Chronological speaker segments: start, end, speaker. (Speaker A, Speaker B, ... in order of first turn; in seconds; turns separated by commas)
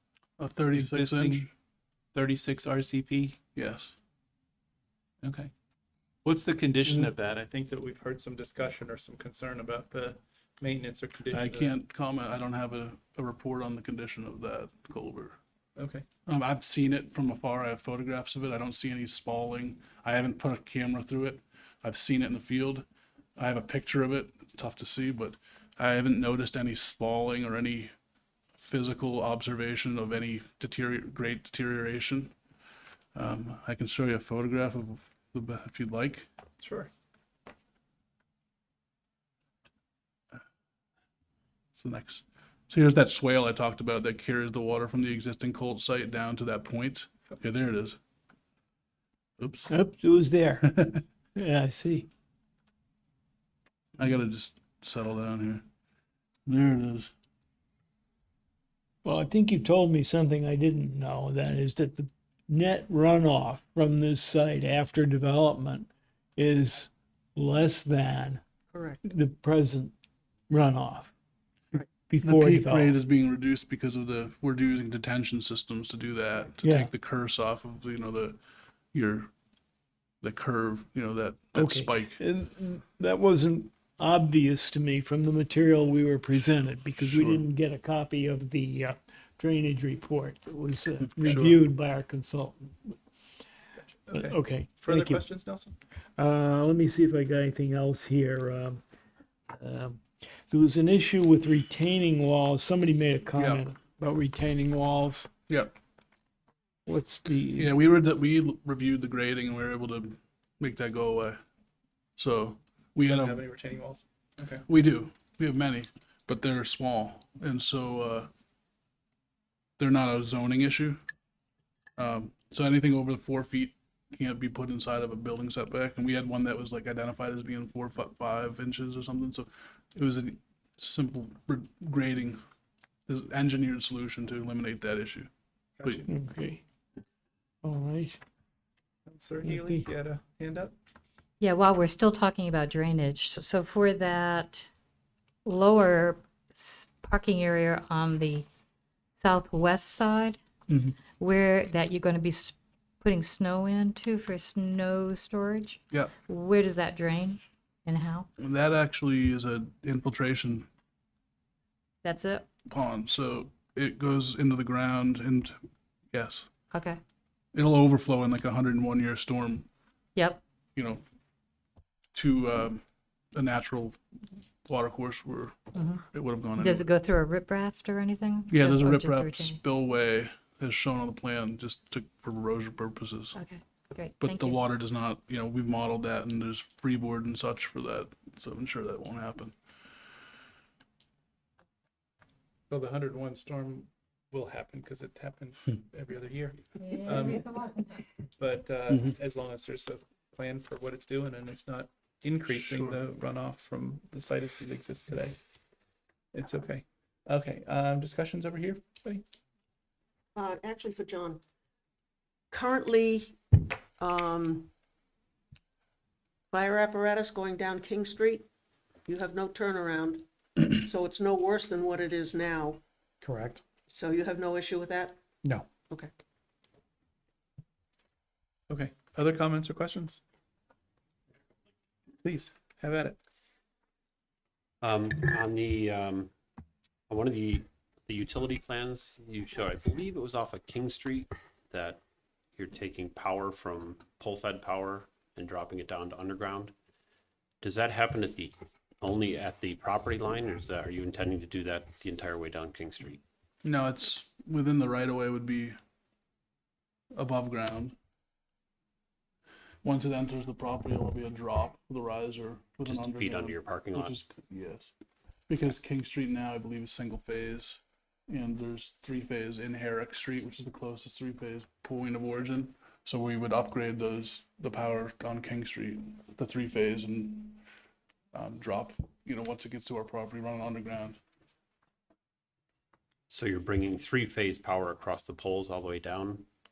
Speaker A: 0.4-1.5, Speaker B: 0.7-1.5, Speaker B: 2.1-3.4, Speaker A: 3.5-4.0, Speaker B: 5.2-5.5, Speaker B: 6.2-11.8, Speaker A: 11.3-15.4, Speaker B: 15.8-16.0, Speaker A: 16.3-22.9, Speaker A: 23.4-27.9, Speaker A: 28.6-32.3, Speaker A: 33.1-36.3, Speaker B: 36.6-36.9, Speaker A: 41.8-48.0, Speaker A: 49.4-49.7, Speaker C: 49.7-50.8, Speaker A: 50.7-51.0, Speaker C: 51.4-52.1, Speaker A: 54.0-55.6, Speaker A: 56.5-57.1, Speaker C: 59.0-68.4, Speaker D: 68.7-69.0, Speaker C: 69.0-69.9, Speaker C: 70.5-71.1, Speaker C: 72.1-73.0, Speaker A: 72.2-78.4, Speaker C: 76.6-76.9, Speaker A: 78.9-79.3, Speaker A: 80.2-82.2, Speaker C: 81.5-93.0, Speaker A: 87.0-87.4, Speaker A: 91.2-91.6, Speaker B: 93.8-95.8, Speaker C: 94.1-95.2, Speaker C: 96.2-98.8, Speaker C: 99.5-105.3, Speaker A: 103.4-103.6, Speaker C: 106.9-107.7, Speaker A: 107.6-111.4, Speaker A: 112.2-113.4, Speaker B: 113.0-114.7, Speaker A: 114.7-118.3, Speaker A: 119.8-121.0, Speaker A: 122.0-132.4, Speaker A: 133.1-135.3, Speaker B: 135.8-136.1, Speaker C: 136.1-136.6, Speaker C: 137.6-138.2, Speaker B: 139.1-140.8, Speaker C: 139.5-139.8, Speaker E: 141.4-144.7, Speaker E: 145.4-148.5, Speaker E: 149.2-150.4, Speaker A: 150.7-151.0, Speaker E: 151.2-158.3, Speaker A: 158.4-160.7, Speaker E: 162.0-162.5, Speaker A: 162.7-165.6, Speaker A: 166.1-166.5, Speaker E: 166.7-167.0, Speaker A: 167.5-169.7, Speaker E: 170.2-170.4, Speaker A: 170.8-171.0, Speaker A: 172.1-172.8, Speaker A: 173.3-174.0, Speaker A: 174.7-176.9, Speaker E: 175.7-179.6, Speaker A: 178.5-183.4, Speaker E: 183.3-184.6, Speaker A: 184.2-189.6, Speaker B: 192.7-197.5, Speaker E: 196.8-198.0, Speaker B: 198.4-205.4, Speaker A: 202.5-203.0, Speaker B: 206.3-209.2, Speaker D: 210.4-211.4, Speaker D: 212.5-213.3, Speaker D: 214.0-214.7, Speaker D: 216.5-218.4, Speaker D: 219.1-220.2, Speaker D: 220.8-222.8, Speaker B: 223.2-223.6, Speaker D: 223.9-225.2, Speaker B: 225.4-225.8, Speaker D: 225.8-226.1, Speaker B: 228.7-230.2, Speaker B: 232.2-233.2, Speaker F: 234.8-236.3, Speaker F: 237.1-242.0, Speaker F: 242.6-246.7, Speaker F: 247.6-253.2, Speaker A: 253.6-255.8, Speaker A: 257.1-257.9, Speaker A: 259.8-264.9, Speaker F: 262.9-264.2, Speaker A: 265.5-277.6, Speaker A: 278.3-281.2, Speaker F: 283.3-286.5